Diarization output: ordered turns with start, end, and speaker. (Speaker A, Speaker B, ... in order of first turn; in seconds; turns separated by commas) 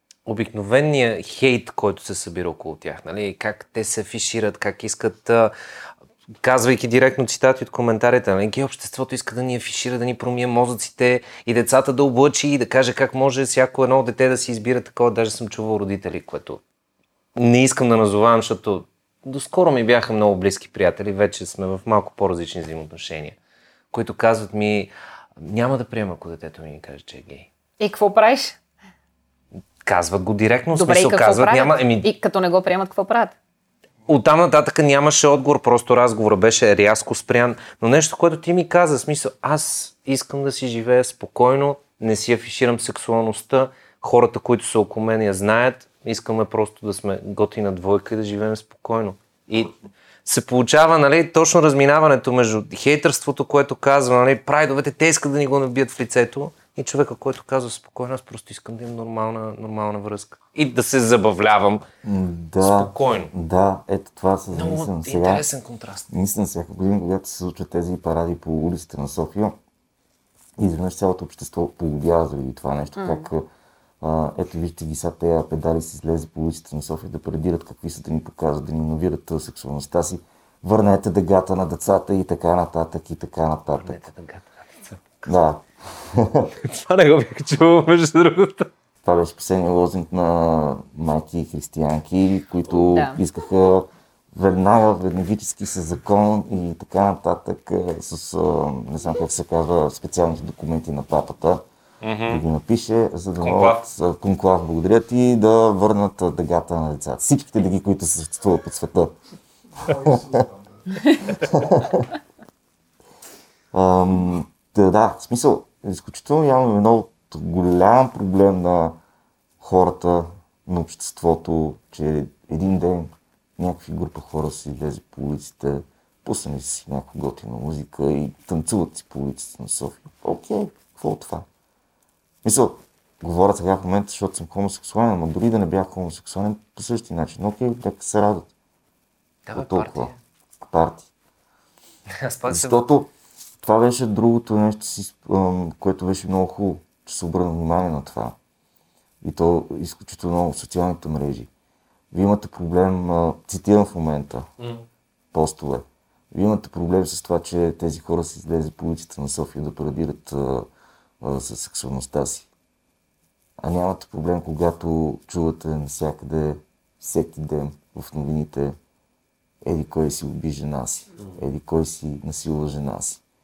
Speaker A: 0.2-5.5, Speaker A: 6.4-16.6, Speaker A: 17.4-23.4, Speaker A: 23.9-27.5, Speaker B: 27.8-28.6, Speaker A: 29.8-32.1, Speaker B: 30.7-33.4, Speaker A: 34.1-61.8, Speaker C: 62.0-65.5, Speaker A: 62.6-63.3, Speaker A: 64.5-66.1, Speaker C: 66.1-69.5, Speaker C: 70.6-73.5, Speaker B: 73.0-73.3, Speaker C: 74.0-84.0, Speaker A: 83.8-85.3, Speaker C: 85.2-86.5, Speaker A: 86.6-88.7, Speaker C: 89.0-101.6, Speaker B: 92.9-93.2, Speaker A: 102.0-102.4, Speaker C: 102.3-109.1, Speaker A: 103.4-103.8, Speaker C: 109.8-110.5, Speaker C: 111.3-112.1, Speaker C: 113.7-119.0, Speaker C: 119.6-131.5, Speaker C: 132.4-138.5, Speaker A: 139.4-140.2, Speaker C: 139.5-141.1, Speaker A: 142.2-142.8, Speaker C: 142.5-143.1, Speaker C: 143.6-148.4, Speaker C: 149.2-151.5, Speaker C: 152.1-154.5, Speaker A: 154.6-154.8, Speaker C: 155.3-160.7, Speaker C: 161.2-162.5, Speaker C: 163.6-168.8, Speaker C: 169.6-173.2